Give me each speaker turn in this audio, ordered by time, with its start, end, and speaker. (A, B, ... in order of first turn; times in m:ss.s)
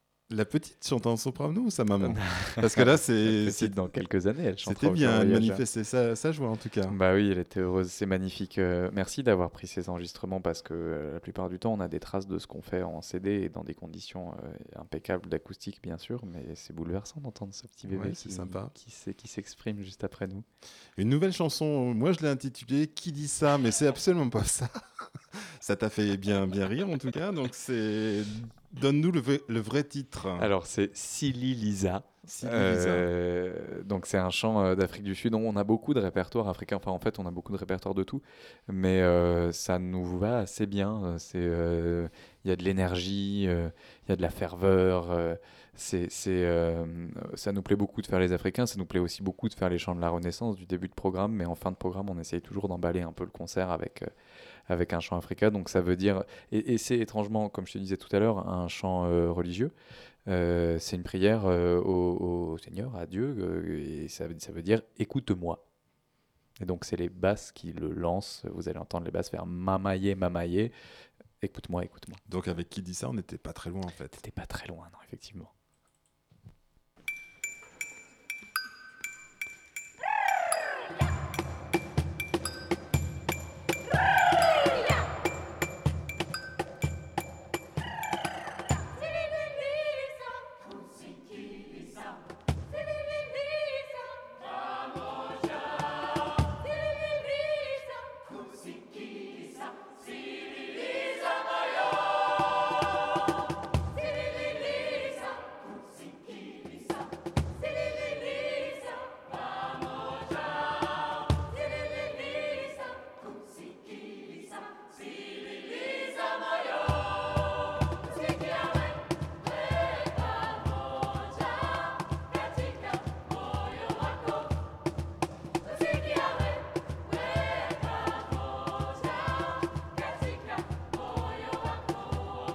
0:00.3-0:03.7 A
0:02.0-0:05.6 B
0:04.6-0:07.0 A
0:06.9-0:20.4 B
0:17.9-0:18.7 A
0:21.0-0:24.7 A
0:25.6-0:30.5 A
0:30.4-0:54.1 B
0:32.3-0:33.1 A
0:54.7-0:59.7 B
1:00.3-1:05.6 B
1:06.6-1:10.7 B
1:11.4-1:12.2 B
1:12.3-1:14.2 A
1:14.1-1:15.5 B